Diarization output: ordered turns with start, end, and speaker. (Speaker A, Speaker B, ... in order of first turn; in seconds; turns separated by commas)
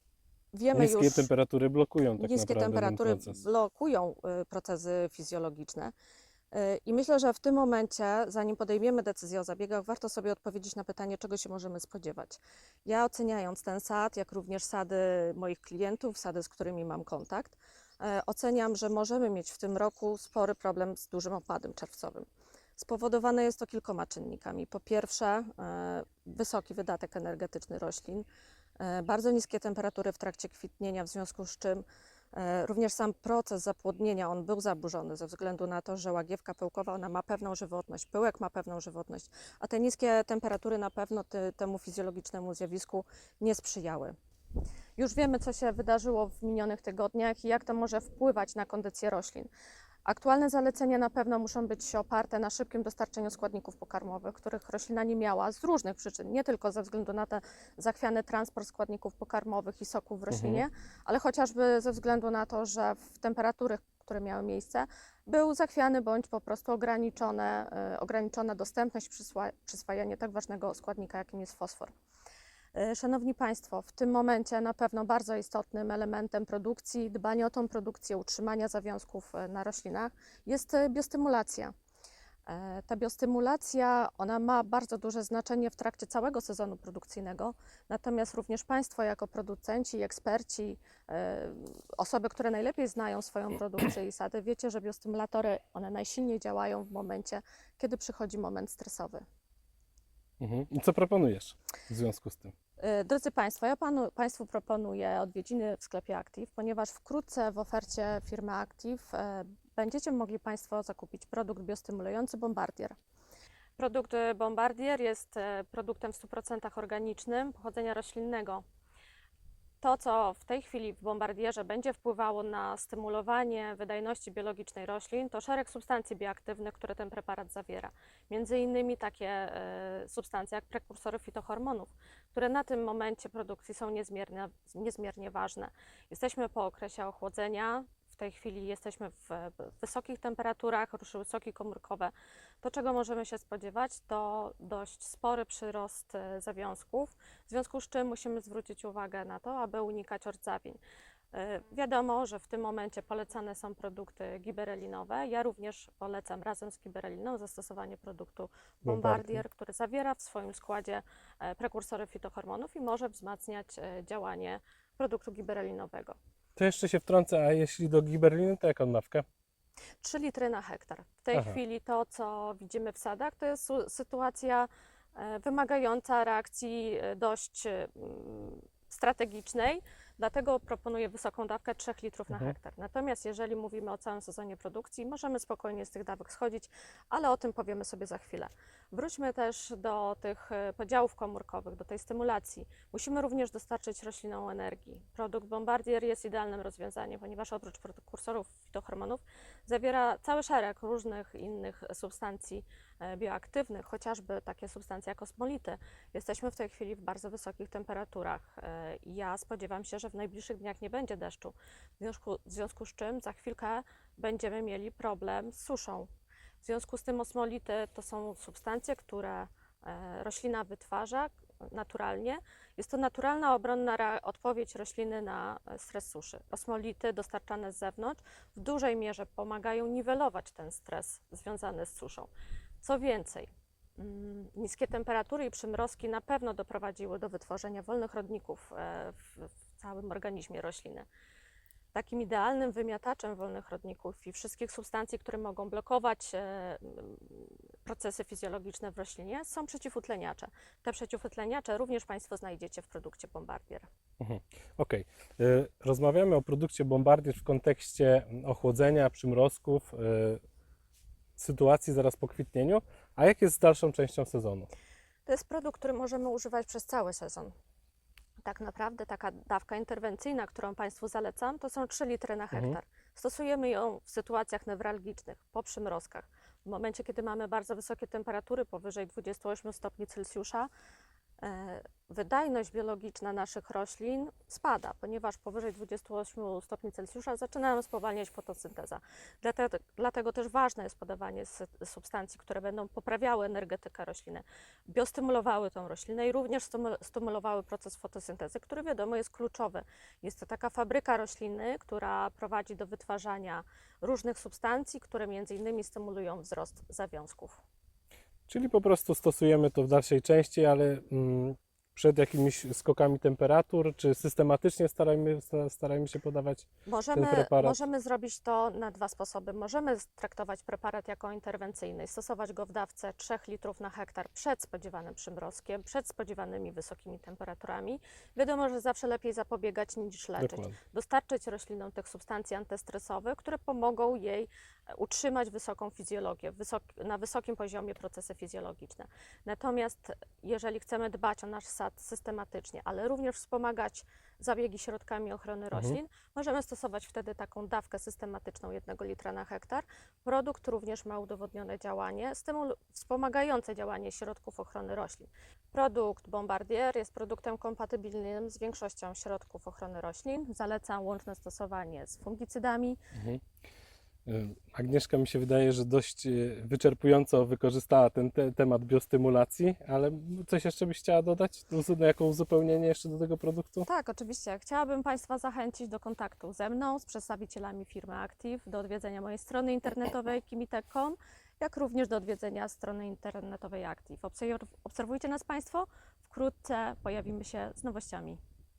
Speaker A: 0.5-1.3, Speaker B: 0.7-3.4, Speaker A: 2.2-5.9, Speaker A: 6.5-22.2, Speaker A: 22.8-28.2, Speaker A: 28.8-44.1, Speaker A: 45.0-49.5, Speaker A: 50.0-71.9, Speaker B: 60.3-60.6, Speaker A: 72.7-81.7, Speaker A: 82.5-99.2, Speaker B: 100.4-102.5, Speaker A: 102.8-113.0, Speaker A: 113.8-118.6, Speaker A: 119.8-150.8, Speaker A: 151.3-166.2, Speaker B: 158.9-159.4, Speaker B: 166.6-169.2, Speaker A: 170.0-216.1, Speaker B: 171.3-171.6, Speaker A: 216.6-241.1, Speaker A: 241.9-253.9, Speaker B: 254.2-260.4, Speaker B: 261.4-264.7, Speaker A: 265.2-267.5, Speaker A: 268.4-280.7, Speaker A: 281.4-307.6, Speaker B: 308.5-317.8, Speaker A: 316.9-363.0, Speaker B: 330.4-330.8, Speaker B: 345.7-346.0, Speaker B: 363.1-363.4, Speaker B: 364.2-373.9, Speaker A: 373.8-388.4